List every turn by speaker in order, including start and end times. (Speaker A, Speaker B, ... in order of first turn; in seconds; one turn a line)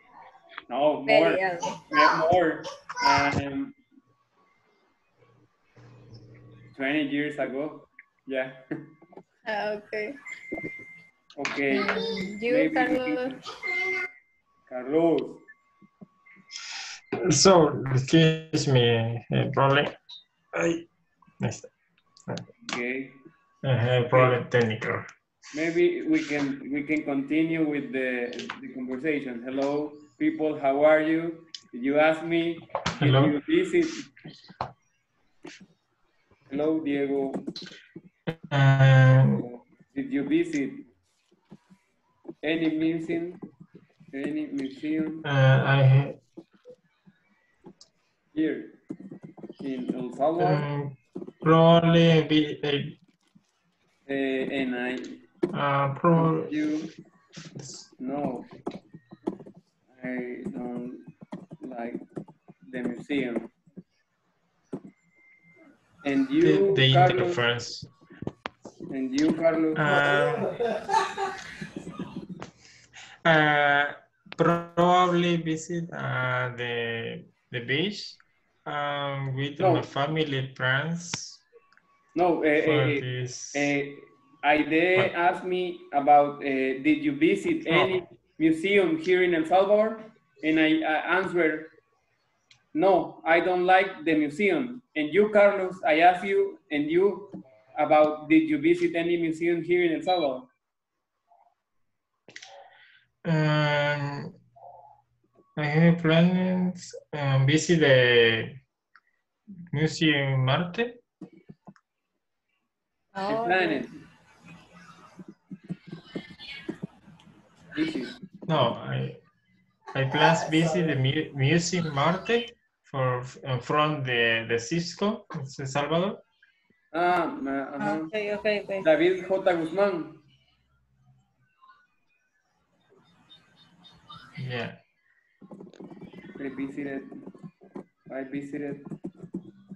Speaker A: 0.7-3.8
Speaker B: 1.0-2.3
Speaker A: 6.7-8.6
Speaker B: 9.4-10.2
Speaker A: 11.4-13.4
Speaker B: 11.7-13.3
Speaker A: 14.7-15.4
Speaker C: 17.2-19.9
Speaker C: 20.5-20.9
Speaker C: 21.4-21.7
Speaker A: 22.6-23.2
Speaker C: 23.6-25.1
Speaker A: 24.1-24.4
Speaker A: 25.5-34.1
Speaker C: 33.0-33.4
Speaker A: 36.5-37.5
Speaker C: 38.3-39.4
Speaker A: 39.4-40.9
Speaker A: 42.4-43.4
Speaker A: 44.1-45.2
Speaker C: 45.2-46.2
Speaker A: 48.3-48.8
Speaker A: 49.6-50.6
Speaker C: 50.4-53.0
Speaker A: 54.0-55.2
Speaker C: 55.5-56.5
Speaker A: 56.1-56.9
Speaker C: 57.6-57.9
Speaker A: 58.0-58.5
Speaker A: 59.9-61.1
Speaker A: 61.6-62.0
Speaker A: 62.6-63.5
Speaker A: 66.0-67.4
Speaker C: 66.4-67.9
Speaker A: 68.9-70.0
Speaker C: 69.7-70.6
Speaker C: 73.2-81.4
Speaker A: 79.6-79.9
Speaker A: 82.1-91.7
Speaker C: 82.6-83.7
Speaker C: 87.6-88.1
Speaker A: 92.7-100.5
Speaker C: 103.2-104.3
Speaker C: 105.6-108.6
Speaker C: 109.7-111.0
Speaker B: 113.1-113.9
Speaker A: 113.3-113.9
Speaker A: 117.7-118.2
Speaker C: 118.5-119.2
Speaker C: 119.9-126.2
Speaker A: 126.9-128.1
Speaker B: 127.8-128.9
Speaker A: 128.8-130.2
Speaker C: 134.4-134.8
Speaker A: 136.4-137.2
Speaker A: 138.1-138.9